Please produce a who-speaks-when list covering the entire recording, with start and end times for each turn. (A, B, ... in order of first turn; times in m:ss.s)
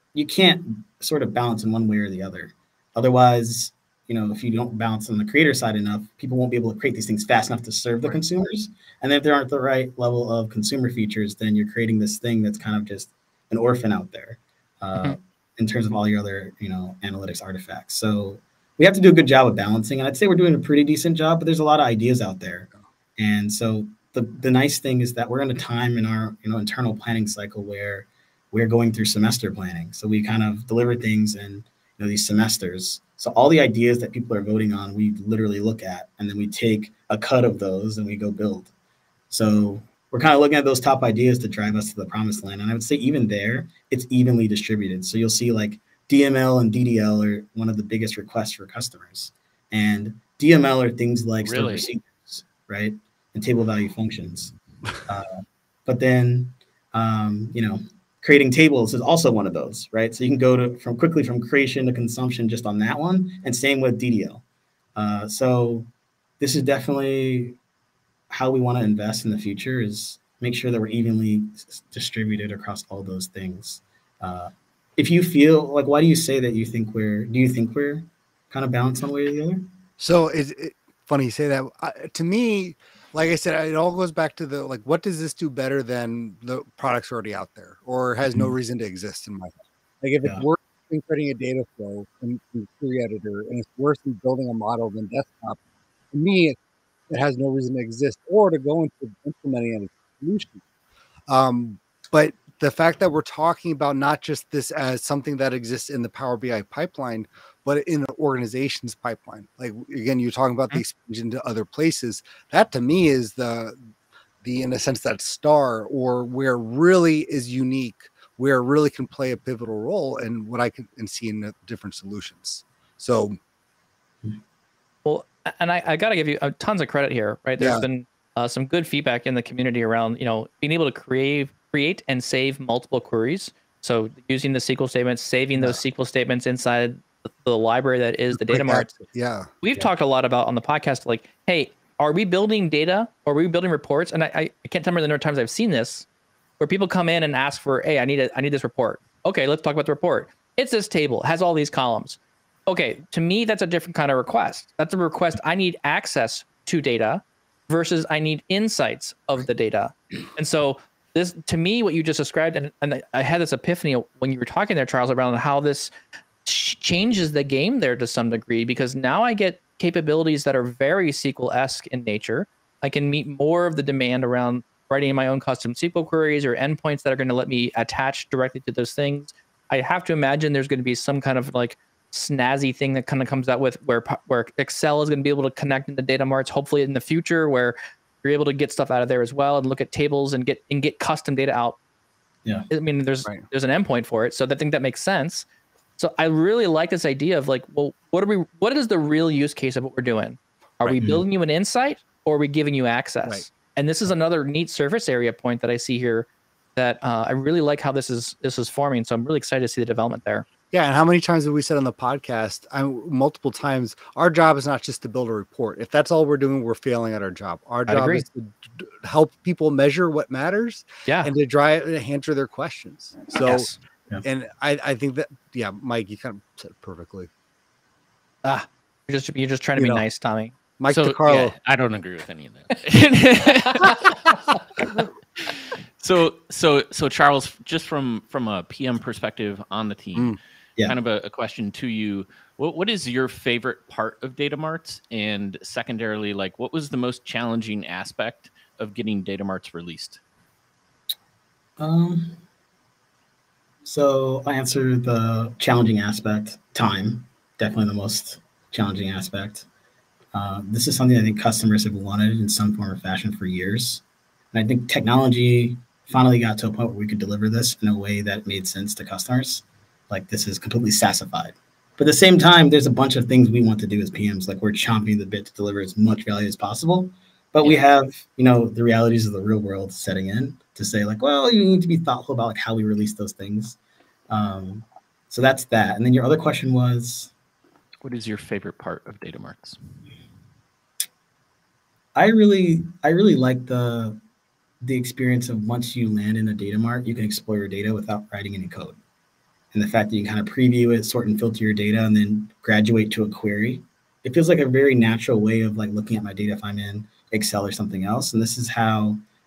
0:00.2-0:38.7 A
0:39.3-0:54.6 A
0:51.4-0:51.9 B
0:55.1-1:04.4 A
1:05.0-1:07.6 A
1:08.3-1:19.6 A
1:20.0-1:35.6 C
1:36.1-1:36.6 C
1:37.1-1:40.6 C
1:41.3-1:53.8 C
1:54.4-2:03.4 C
2:05.0-2:19.0 D
2:07.6-2:07.9 C
2:15.6-2:15.8 C
2:18.3-2:19.5 C
2:19.6-2:26.1 D
2:26.6-2:45.9 D
2:46.4-3:11.8 D
3:12.7-3:15.5 D
3:16.0-3:30.5 D
3:30.7-3:43.7 C
3:37.9-3:38.2 D
3:41.1-3:41.3 D
3:43.4-3:43.8 D
3:44.2-3:47.3 C
3:48.4-3:50.5 D
3:49.8-3:50.0 C
3:50.8-3:51.6 C
3:50.9-3:54.4 B
3:53.8-3:54.4 D
3:55.4-4:10.2 B
4:11.8-4:12.4 A
4:13.8-4:19.7 A
4:20.3-4:43.8 A
4:44.3-4:47.3 A
4:48.0-4:49.8 B
4:52.2-4:54.2 A
4:54.8-4:59.0 A
4:59.7-5:09.2 A